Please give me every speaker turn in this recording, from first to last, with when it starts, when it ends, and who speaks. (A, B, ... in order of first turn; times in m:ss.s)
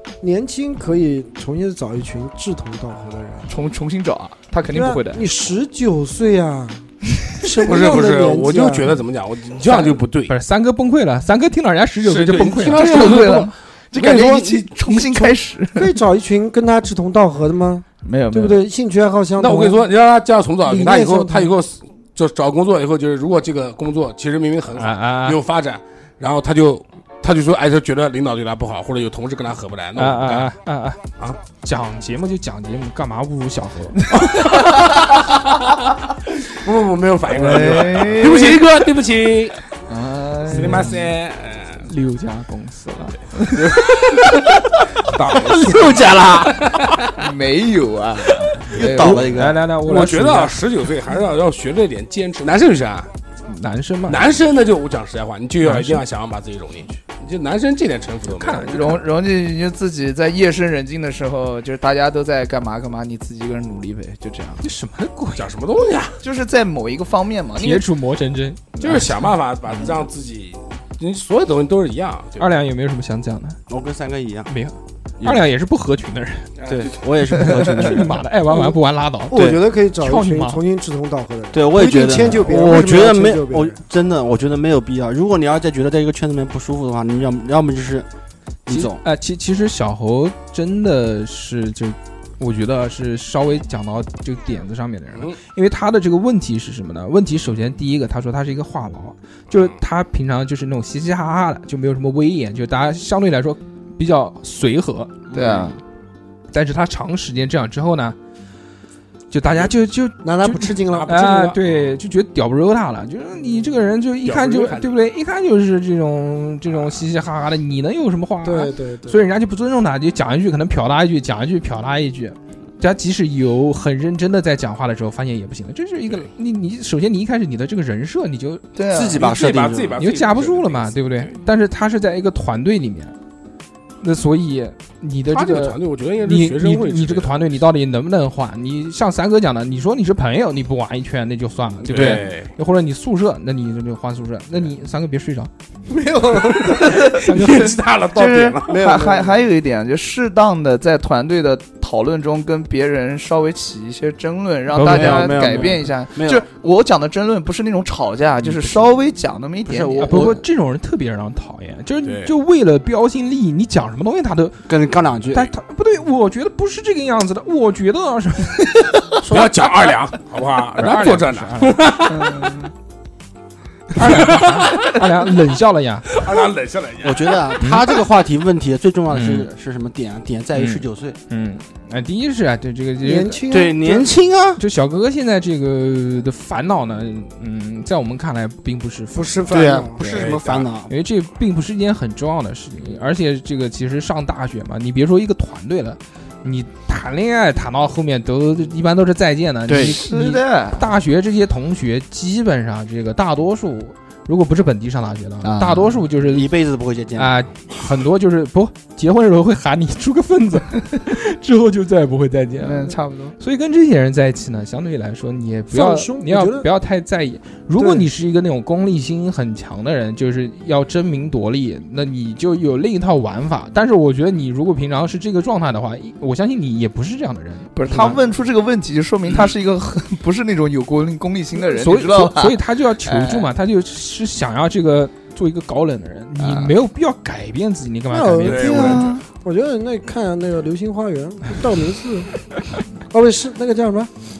0:00.2-0:03.5 A
0:03.5-0:05.3 B
0:04.7-0:09.0 A
0:07.6-0:10.3 C
0:09.6-0:09.9 B
0:10.3-0:13.2 D
0:12.0-0:13.5 C
0:12.7-0:15.9 B
0:14.0-0:19.8 A
0:18.0-0:18.6 B
0:19.4-0:30.5 C
0:20.6-0:21.5 A
0:24.8-0:25.4 D
0:30.0-0:34.1 D
0:34.3-0:34.8 C
0:36.4-0:39.6 C
0:37.3-0:38.6 B
0:39.9-0:41.0 B
0:40.5-0:41.9 C
0:40.5-0:41.1 D
0:41.8-0:43.2 D
0:43.5-0:44.4 C
0:45.0-0:47.1 C
0:45.3-0:46.7 E
0:47.2-0:49.3 B
0:48.7-0:49.6 E
0:49.0-0:50.6 D
0:49.7-0:53.1 C
0:53.4-0:54.3 D
0:54.1-0:59.0 C
0:55.6-0:56.0 D
0:58.2-0:59.0 D
0:58.7-1:04.6 B
1:04.6-1:05.5 D
1:05.4-1:06.2 C
1:06.2-1:07.9 B
1:07.6-1:09.3 D
1:08.8-1:12.5 C
1:12.4-1:13.6 D
1:13.7-1:14.5 E
1:14.5-1:16.5 D
1:16.6-1:17.0 C
1:16.7-1:18.2 E
1:17.3-1:19.3 D
1:19.3-1:23.8 A
1:19.3-1:19.6 E
1:20.0-1:20.6 D
1:21.5-1:28.1 E
1:28.6-1:29.0 E
1:28.7-1:45.1 D
1:35.1-1:35.4 C
1:45.3-1:45.7 E
1:45.3-1:45.8 B
1:46.5-1:48.2 D
1:49.3-2:08.6 D
1:50.2-1:51.2 A
1:50.9-1:51.7 C
1:54.2-1:54.9 C
1:58.4-1:59.2 A
2:08.7-2:09.2 B
2:08.9-2:10.0 E
2:09.1-2:11.4 C
2:10.0-2:13.1 D
2:14.0-2:25.5 D
2:15.3-2:17.6 C
2:21.8-2:22.5 C
2:25.9-2:26.7 A
2:26.3-2:28.9 C
2:26.6-2:27.5 B
2:27.1-2:27.8 D
2:28.1-2:40.3 B
2:28.7-2:29.2 E
2:28.8-2:29.3 A
2:34.7-2:35.6 D
2:34.9-2:36.4 E
2:39.6-2:40.4 E
2:40.0-2:44.6 D
2:42.0-2:42.3 C
2:44.7-2:45.5 E
2:45.3-2:48.7 D
2:49.2-2:49.5 E
2:49.3-2:52.6 C
2:50.8-2:51.9 D
2:52.1-2:52.7 B
2:53.9-2:56.2 D
2:54.0-2:54.6 C
2:56.1-2:57.4 C
2:57.0-3:01.2 E
2:59.1-2:59.5 D
3:00.5-3:03.4 D
3:03.0-3:04.1 A
3:03.5-3:04.6 E
3:04.6-3:09.6 D
3:09.1-3:10.3 A
3:09.5-3:10.9 E
3:10.0-3:10.7 C
3:10.9-3:26.5 D
3:19.7-3:20.0 E
3:19.7-3:20.9 B
3:25.4-3:27.4 E
3:27.2-3:48.2 D
3:32.6-3:33.4 B
3:35.7-3:36.7 A
3:37.8-3:38.1 A
3:47.7-3:53.5 B
3:51.7-3:59.0 D
3:56.4-3:56.7 B
3:58.1-4:02.4 A
3:58.4-3:59.1 C
3:58.7-3:59.2 B
4:03.1-4:04.1 A